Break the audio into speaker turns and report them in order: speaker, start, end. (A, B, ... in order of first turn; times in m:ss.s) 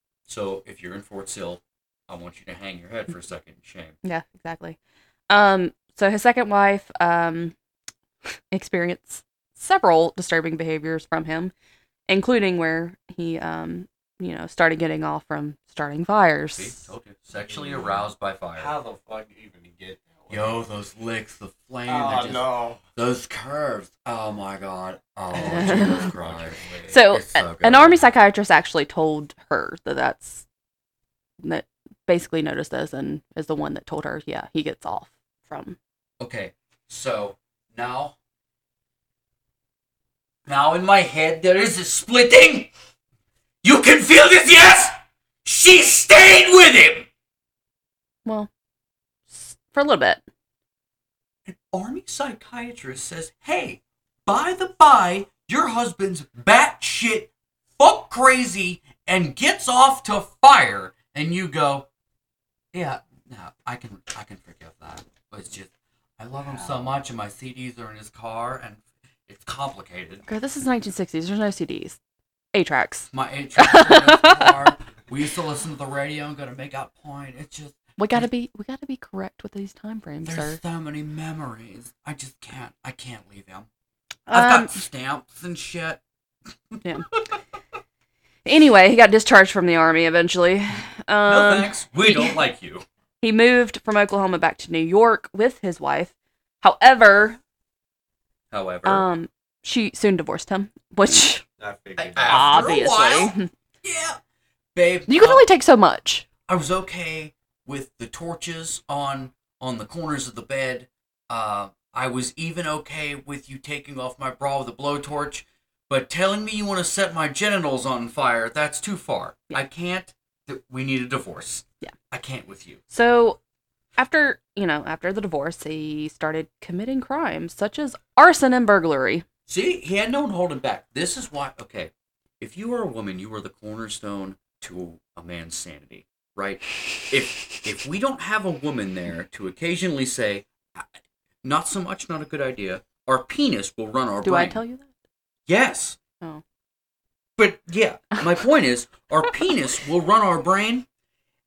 0:00.3-0:04.0 A
0:04.0-0:04.8 B
0:05.3-0:07.5 B
0:08.5-0:11.5 B
0:12.1-0:16.9 B
0:16.5-0:18.7 A
0:17.4-0:20.7 C
0:20.3-0:28.0 A
0:21.9-0:22.8 C
0:25.3-0:26.0 B
0:25.3-0:27.0 C
0:26.9-0:30.4 B
0:31.4-0:35.8 B
0:36.2-0:38.1 A
0:40.5-0:42.7 A
0:43.6-0:47.1 A
0:49.3-0:50.2 B
0:51.5-1:01.9 A
1:02.7-1:10.2 A
1:10.3-1:12.0 B
1:12.5-1:14.6 B
1:13.1-1:18.2 A
1:18.0-1:20.6 B
1:20.2-1:23.7 A
1:24.3-1:24.8 B
1:24.3-1:26.0 A
1:26.7-1:27.4 A
1:28.4-1:32.4 B
1:31.3-1:32.8 A
1:33.2-1:37.4 B
1:38.5-1:39.0 A
1:38.8-1:41.4 B
1:41.6-1:42.8 C
1:42.0-1:44.2 A
1:42.3-1:43.5 B
1:44.8-1:45.4 A
1:45.1-1:46.2 B
1:46.5-2:02.8 A
2:02.9-2:03.4 B
2:04.0-2:09.2 B
2:09.5-2:20.9 A
2:21.4-2:24.6 A
2:24.2-2:24.9 B
2:25.5-2:26.0 A
2:27.4-2:30.9 A